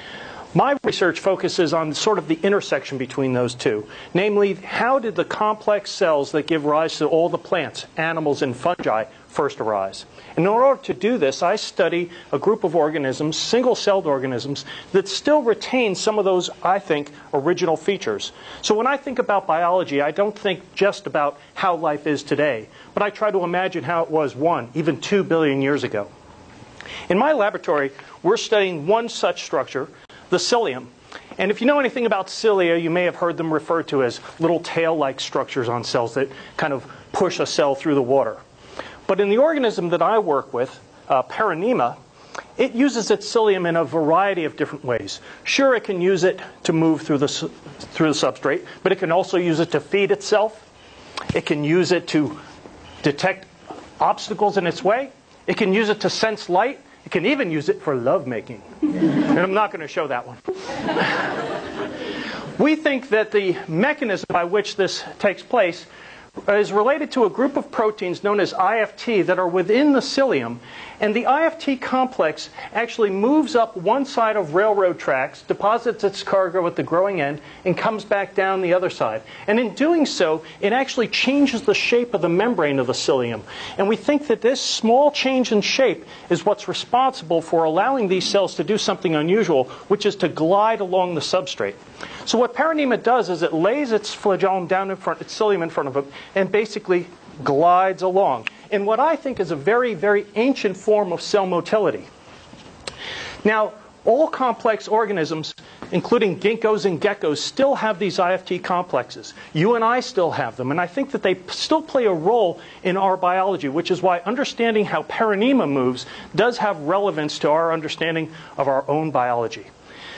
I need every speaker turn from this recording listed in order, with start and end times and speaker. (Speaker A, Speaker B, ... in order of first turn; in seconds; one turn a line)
Speaker A: 0.5-26.1
Speaker A: 27.1-38.4
Speaker A: 39.1-42.0
Speaker A: 42.6-50.7
Speaker A: 51.3-52.4
Speaker A: 53.0-58.7
Speaker A: 59.3-60.4
Speaker A: 62.6-65.9
Speaker A: 66.5-102.1
Speaker A: 103.4-119.7